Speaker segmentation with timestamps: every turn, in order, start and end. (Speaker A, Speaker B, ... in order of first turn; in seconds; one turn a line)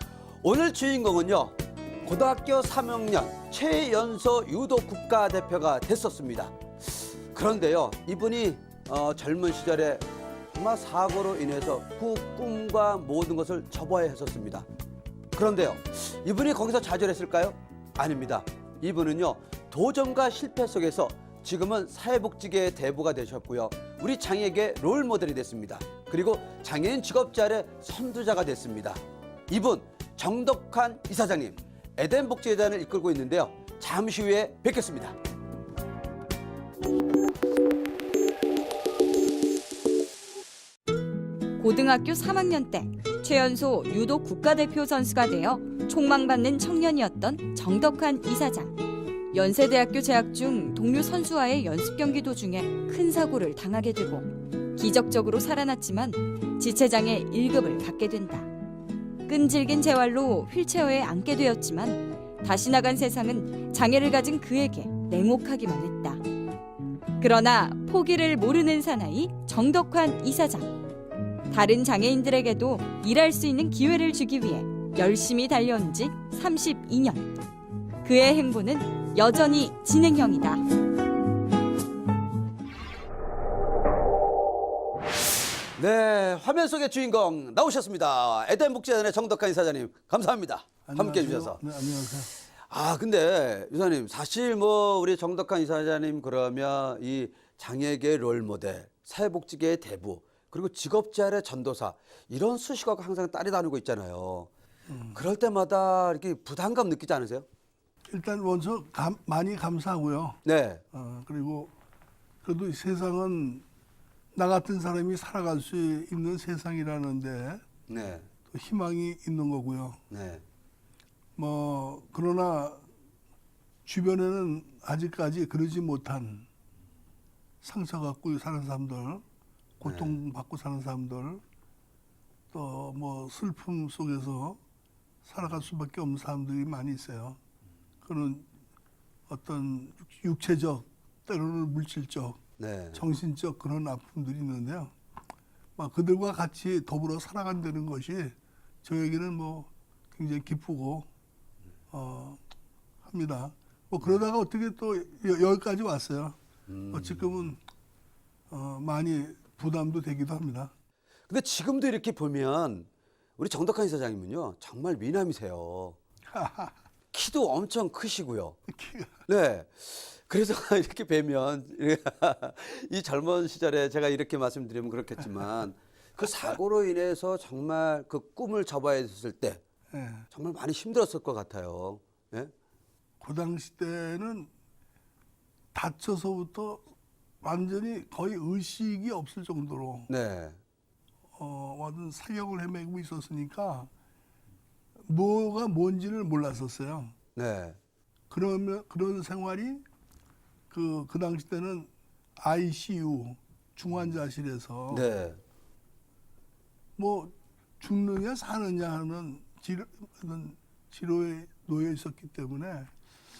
Speaker A: 0.4-14.7
Speaker A: 15.3-35.2
Speaker B: 41.6-48.7
Speaker B: 49.3-58.5
Speaker B: 59.3-66.2
Speaker B: 67.2-70.8
Speaker B: 71.5-77.3
Speaker B: 78.0-80.6
Speaker A: 85.8-91.7
Speaker C: 90.8-92.3
Speaker A: 92.7-104.5
Speaker C: 104.9-105.2
Speaker A: 105.1-107.5
Speaker C: 108.1-110.4
Speaker A: 110.5-110.8
Speaker C: 110.9-111.7
Speaker C: 112.4-113.7
Speaker C: 114.3-117.7
Speaker A: 117.9-118.3
Speaker C: 118.5-120.0
Speaker A: 120.1-120.4
Speaker C: 121.4-122.9
Speaker C: 123.9-126.5
Speaker C: 127.6-129.2
Speaker C: 129.8-131.4
Speaker A: 129.8-130.2
Speaker C: 132.5-134.6
Speaker C: 135.2-137.4
Speaker C: 138.0-138.5
Speaker C: 139.3-142.4
Speaker A: 142.6-143.1
Speaker C: 142.9-144.9
Speaker C: 145.8-151.1
Speaker C: 151.9-152.4
Speaker C: 153.0-156.4
Speaker A: 156.7-157.3
Speaker C: 156.9-157.6
Speaker C: 158.5-160.7
Speaker A: 161.3-166.0
Speaker C: 166.3-166.8
Speaker A: 167.1-168.6
Speaker C: 168.7-169.2
Speaker A: 169.3-179.6
Speaker C: 179.9-180.3
Speaker A: 180.3-182.5
Speaker C: 183.2-184.5
Speaker C: 185.7-186.9
Speaker C: 187.4-190.1
Speaker A: 190.1-190.6
Speaker C: 191.4-193.9
Speaker C: 195.0-197.2
Speaker A: 197.4-197.8
Speaker C: 198.3-199.8
Speaker C: 200.7-205.0
Speaker A: 204.9-205.4
Speaker C: 207.0-212.9